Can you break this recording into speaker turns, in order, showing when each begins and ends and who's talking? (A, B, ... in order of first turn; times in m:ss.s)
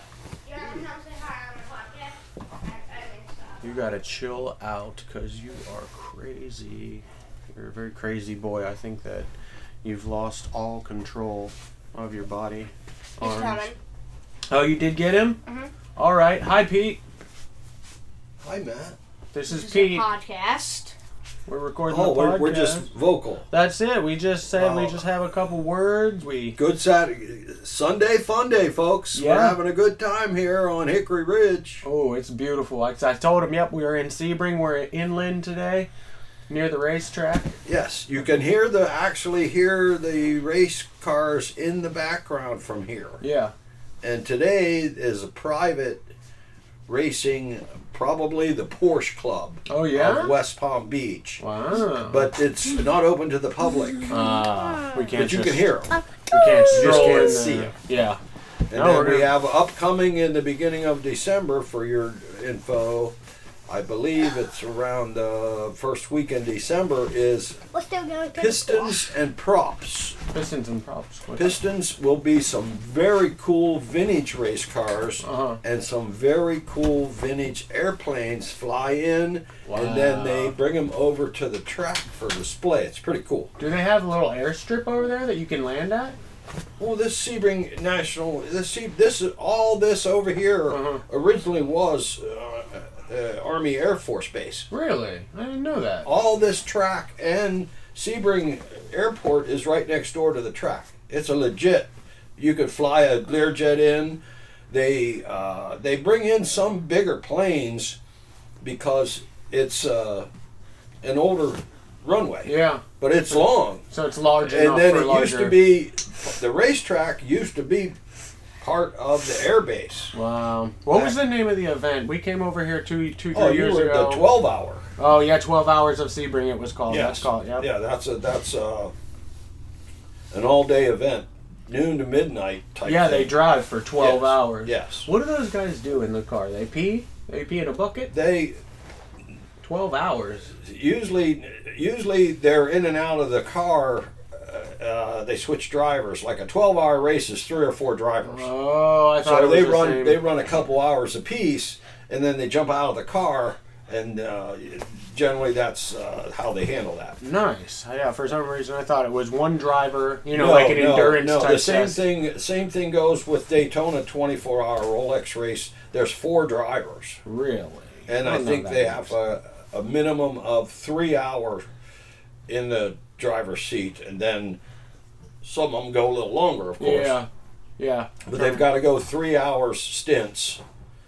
0:00.4-0:03.8 A
0:03.6-0:09.3 B
0:09.8-0:13.7 B
0:13.2-0:13.8 A
0:14.5-0:15.4 B
0:15.4-0:15.7 A
0:16.0-0:17.0 B
0:18.4-0:19.0 C
0:19.3-0:20.1 B
0:19.5-0:20.9 A
0:21.5-0:22.9 B
0:21.9-0:23.5 C
0:23.5-0:26.6 B
0:24.5-0:25.0 C
0:26.6-0:31.8 C
0:29.1-0:29.6 B
0:31.8-0:35.9 B
0:36.5-0:37.5 B
0:37.6-0:43.2 C
0:43.2-0:43.5 B
0:44.0-0:46.1 C
0:46.9-0:54.2 C
0:49.7-0:50.4 B
0:51.4-0:52.3 B
0:54.1-0:55.7 B
0:54.1-0:55.0 D
0:55.1-0:56.0 C
0:56.3-0:57.2 D
0:56.3-0:58.2 B
0:56.7-0:57.8 C
0:58.7-1:03.2 C
0:58.7-0:59.3 B
1:03.7-1:07.6 C
1:07.7-1:09.1 D
1:08.4-1:10.2 C
1:10.3-1:11.6 B
1:11.4-1:23.5 C
1:15.2-1:15.6 B
1:19.6-1:20.6 B
1:23.6-1:26.2 B
1:26.8-1:34.7 C
1:30.7-1:31.0 B
1:34.7-1:36.1 B
1:36.0-1:48.0 C
1:48.6-1:50.3 C
1:51.0-1:53.8 C
1:52.4-1:55.6 B
1:54.4-1:58.0 C
1:58.6-2:00.1 C
2:00.1-2:04.3 B
2:00.9-2:01.2 C
2:03.3-2:04.9 C
2:05.0-2:07.7 B
2:06.9-2:08.9 C
2:10.3-2:13.4 C
2:12.8-2:18.1 B
2:14.0-2:15.1 C
2:18.1-2:18.6 C
2:19.6-2:20.5 B
2:20.6-2:28.5 C
2:28.3-2:30.2 B
2:29.1-2:37.2 C
2:37.2-2:42.0 B
2:40.3-2:47.2 C
2:47.2-2:49.2 B
2:48.1-2:51.6 C
2:52.5-2:54.6 C
2:55.4-2:57.2 C
2:56.8-2:58.7 B
2:58.2-3:00.6 C